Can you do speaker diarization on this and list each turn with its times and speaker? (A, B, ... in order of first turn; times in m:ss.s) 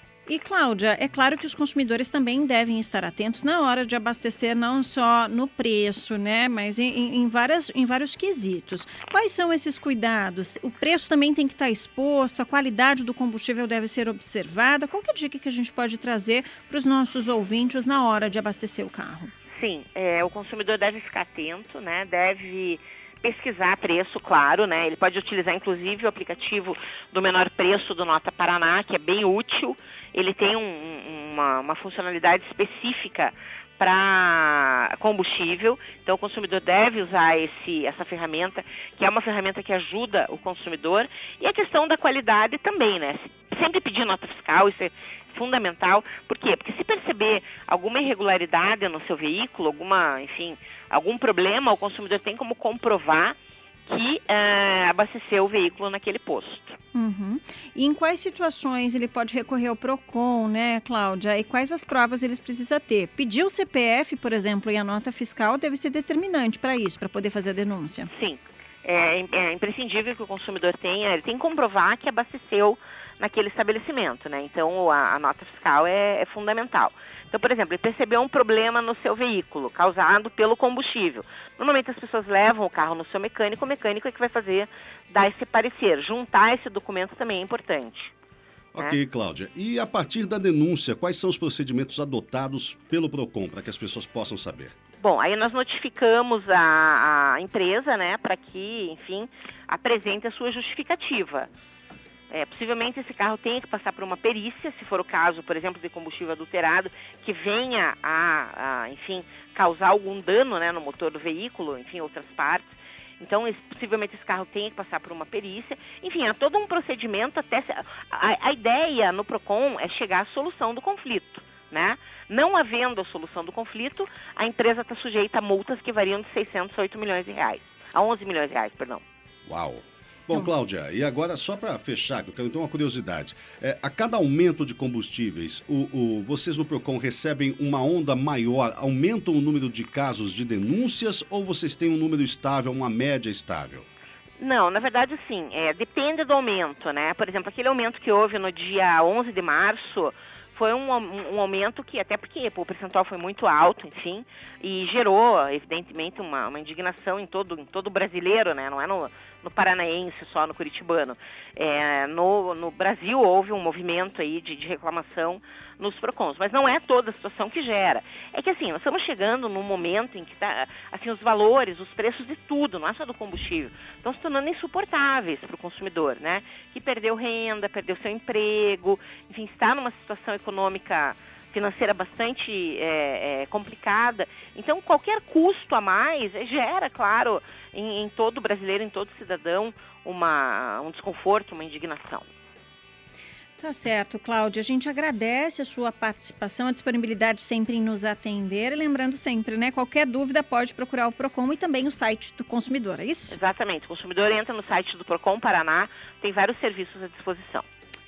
0:00.3-0:19.3 A
0:19.5-0:56.8 B
0:56.9-1:08.1 A
1:08.1-1:28.1 B
1:28.7-1:34.7 C
1:35.0-1:41.5 B
1:42.3-2:09.0 B
2:09.5-2:23.9 C
2:24.4-3:12.3 B
3:13.6-3:23.4 A
3:23.3-3:27.7 B